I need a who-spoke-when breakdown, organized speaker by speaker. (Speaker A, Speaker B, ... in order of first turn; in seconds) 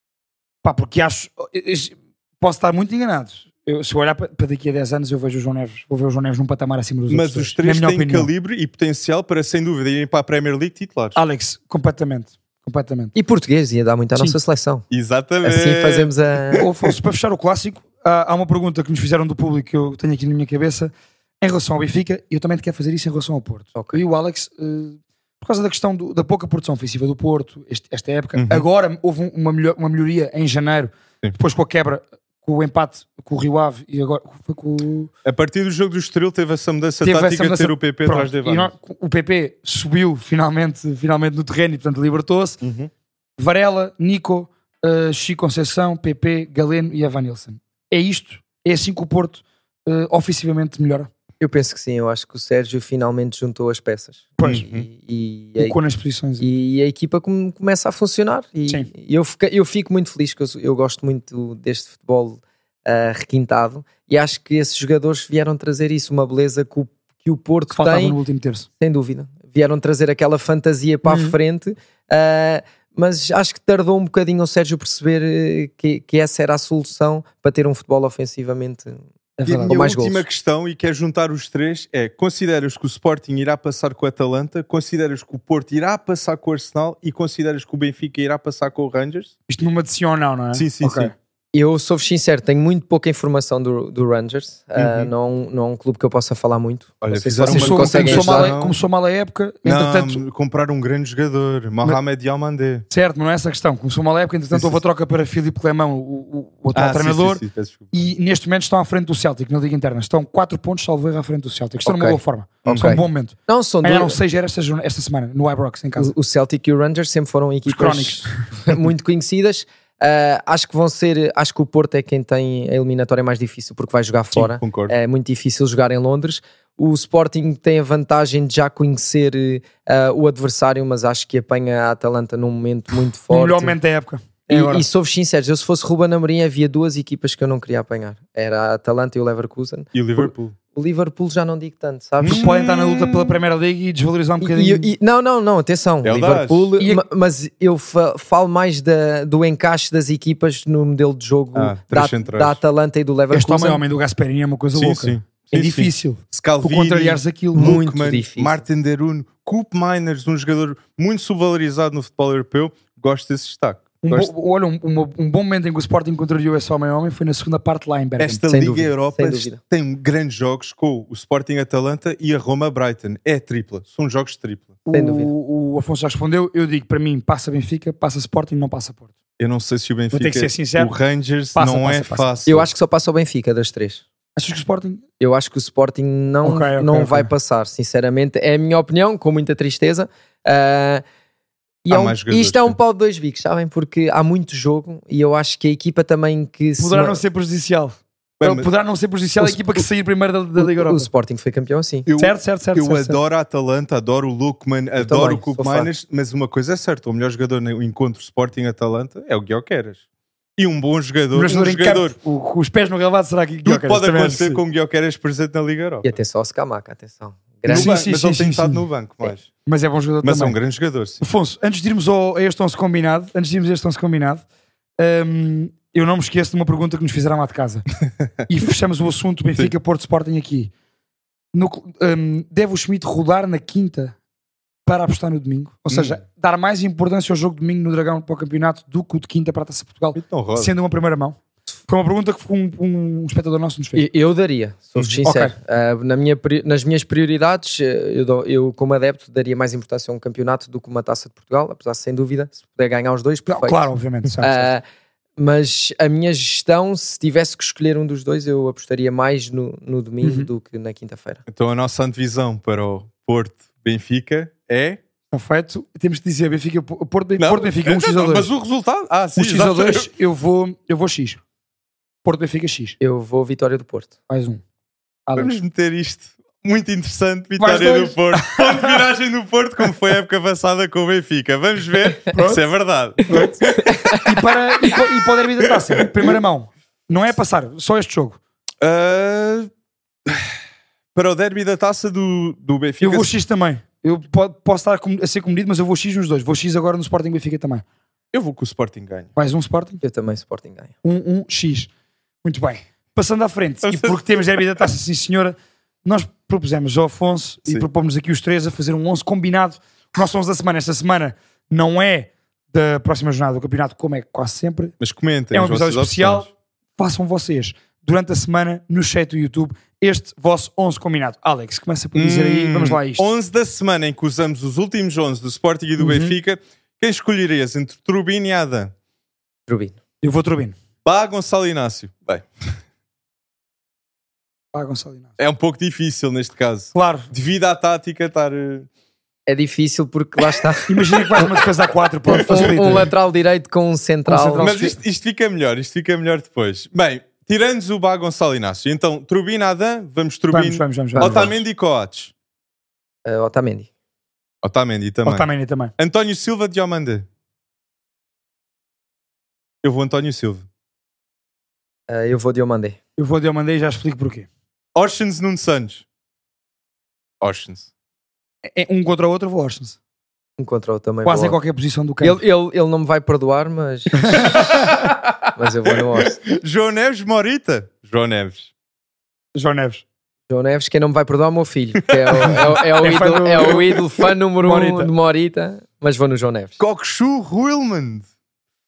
Speaker A: 0.6-8.3, 11.2-13.1, 16.6-35.1, 37.0-42.6, 43.4-51.1, 54.4-54.6, 55.6-56.4, 67.7-68.7, 71.0-71.4, 79.4-79.7, 89.5-91.1, 97.4-100.2, 102.9-116.1, 117.7-118.4, 133.3-134.9, 142.2-144.9, 153.3-157.8, 164.0-168.4, 174.9-179.1, 180.1-180.9, 181.5-182.3, 184.4-185.0, 186.4-187.3, 196.8-201.1, 202.2-203.2, 211.3-214.6, 217.7-218.9, 219.7-220.6, 221.2-224.4, 225.0-227.9, 228.5-230.7, 231.5-234.2, 234.9-244.1, 245.2-245.5, 253.5-254.7, 260.2-260.5, 265.3-268.5, 269.4-271.4, 272.2-273.0, 274.3-274.6, 275.3-275.5, 277.6-279.0, 282.3-282.6, 283.3-283.6, 284.1-288.4, 293.0-297.9, 299.4-300.0, 301.0-301.9, 302.4-314.9, 315.5-323.3, 326.0-326.4, 330.2-330.8, 334.7-335.3, 336.9-337.3, 340.9-343.1, 344.3-345.0, 350.5-351.6, 355.2-355.9, 363.2-364.5, 368.7-370.0, 371.2-372.4, 374.2-375.1, 379.5-380.0, 383.0-384.0, 384.6-385.1
Speaker B: 7.1-11.2, 14.9-16.6, 28.4-28.6, 35.2-38.7, 42.6-42.9, 54.4-54.9, 79.4-89.3, 90.5-91.1, 94.8-95.1, 97.0-98.8, 99.6-102.9, 104.5-104.8, 106.7-107.9, 112.7-113.0, 124.4-124.9, 139.9-140.5, 142.2-143.3, 146.0-146.7, 151.5-152.6, 154.7-164.3, 168.2-174.8, 179.4-182.7, 191.9-192.8, 198.4-198.7, 202.1-210.0, 210.6-212.1, 213.6-216.1, 217.7-219.5, 220.2-221.2, 235.9-236.2, 240.1-240.7, 244.9-245.2, 261.5-265.0, 267.4-270.1, 275.4-284.1, 288.8-289.7, 290.2-290.6, 291.1-293.3, 298.3-299.3, 303.8-304.5, 315.0-316.5, 322.1-328.9, 331.0-332.4, 335.4-338.9, 342.4-343.0, 344.6-352.3, 354.6-357.3, 359.8-360.6, 364.9-366.0, 367.4-367.9, 374.5-378.7, 382.3-382.8, 386.8-388.3
Speaker C: 13.1-14.9, 15.4-16.7, 23.7-24.0, 51.4-55.8, 56.4-68.2, 68.8-79.0, 79.6-80.2, 91.5-98.5, 111.9-114.2, 116.0-133.8, 134.5-142.5, 144.4-153.8, 157.5-158.6, 168.5-169.6, 174.9-175.3, 182.4-184.0, 185.2-191.0, 191.8-197.2, 200.6-202.1, 205.0-205.9, 216.0-218.0, 243.9-253.9, 254.4-254.8, 255.4-261.4, 273.0-274.1, 283.8-284.3, 300.0-300.9, 329.7-329.9, 339.5-341.0, 342.3-344.8, 351.1-351.6, 353.2-353.9, 362.1-363.0, 370.6-371.6, 372.2-374.8, 375.5-376.4, 380.5-386.8